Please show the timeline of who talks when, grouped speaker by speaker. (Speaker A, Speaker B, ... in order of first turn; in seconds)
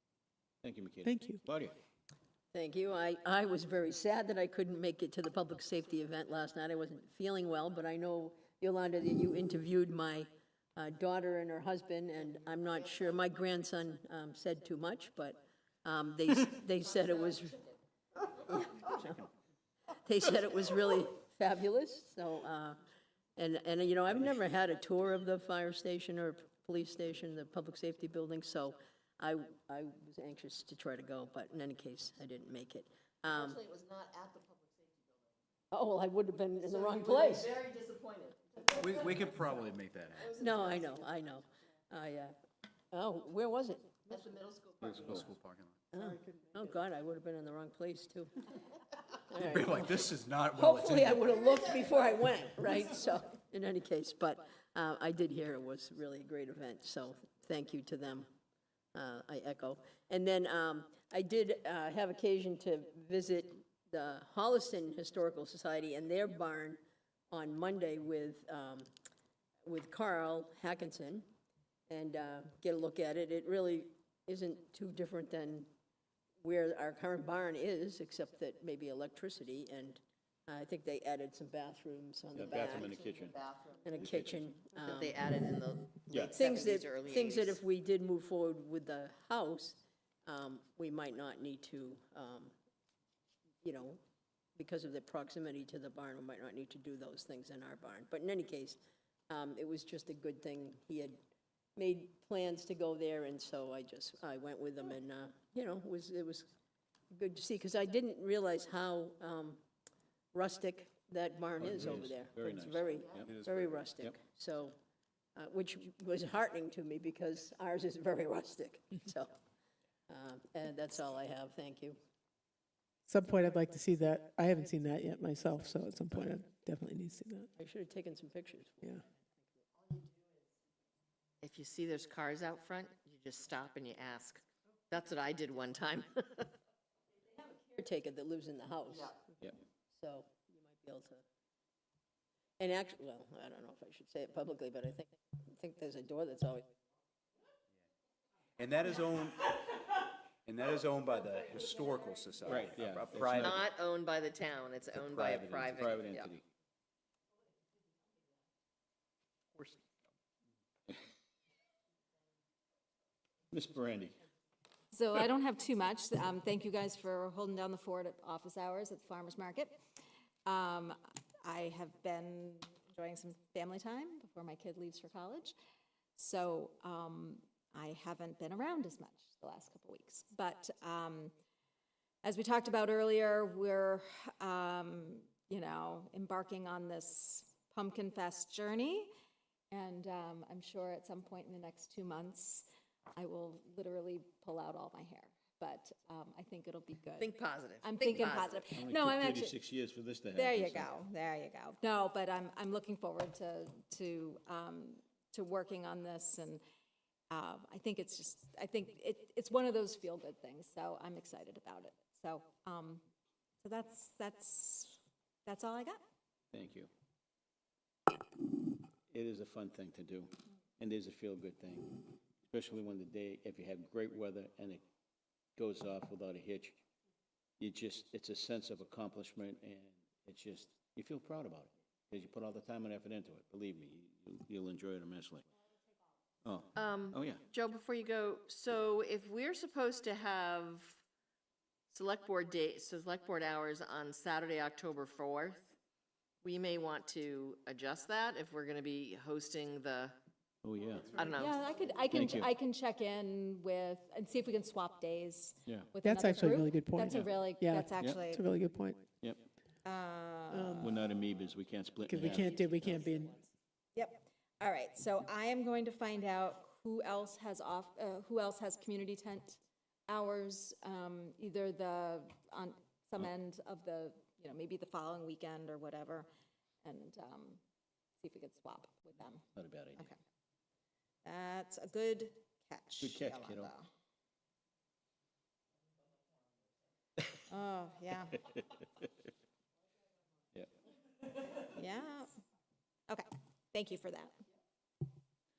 Speaker A: 0.6-1.8, 82.3-83.4, 84.0-84.4, 86.1-86.4, 111.6-113.3, 152.4-153.6, 155.7-156.4, 163.5-164.2, 198.8-200.9, 216.5-216.9, 219.1-224.8, 225.6-226.8, 227.6-235.4, 236.4-237.4, 250.6-251.2, 252.1-252.5, 258.0-258.2, 259.2-259.4, 260.8-263.1, 279.6-280.1, 283.0-283.7
Speaker B: 1.0-1.4, 123.1-127.5, 256.0-259.1, 260.5-261.0, 262.1-263.4
Speaker C: 2.5-17.6, 18.4-19.2, 20.0-22.8, 23.4-33.6, 35.7-37.5, 40.4-42.3, 42.9-43.9, 45.9-48.3, 49.3-58.3, 58.9-66.8, 67.3-68.9, 69.6-71.3, 71.9-75.7, 76.4-82.9, 83.8-85.1, 86.3-92.5, 93.6-94.0, 94.5-101.2, 101.8-106.5, 107.1-109.6, 110.3-114.7, 115.3-119.3, 120.1-122.0, 127.6-128.9, 137.4-139.2, 139.9-141.2, 142.6-146.7
Speaker D: 33.3-35.3, 36.6-41.0, 44.1-45.4, 82.4-83.9, 84.8-87.6, 113.0-113.3, 131.4-136.4, 138.9-139.2, 153.4-156.3, 197.2-198.6, 236.8-241.0, 241.9-245.7, 246.4-250.1, 251.2-251.6
Speaker E: 38.7-40.4, 44.8-45.8, 49.4-51.3, 113.2-113.6, 148.6-149.7, 150.4-153.6, 155.0-155.9
Speaker F: 164.9-169.7, 170.4-175.5, 176.1-181.3, 182.2-189.1, 189.7-199.6, 200.3-206.6, 207.3-213.0, 213.6-216.0, 251.3-258.5, 259.8-260.9, 263.9-276.3, 276.8-277.6, 278.2-279.4, 281.2-283.9, 287.5-288.4, 291.6-292.3, 293.1-294.3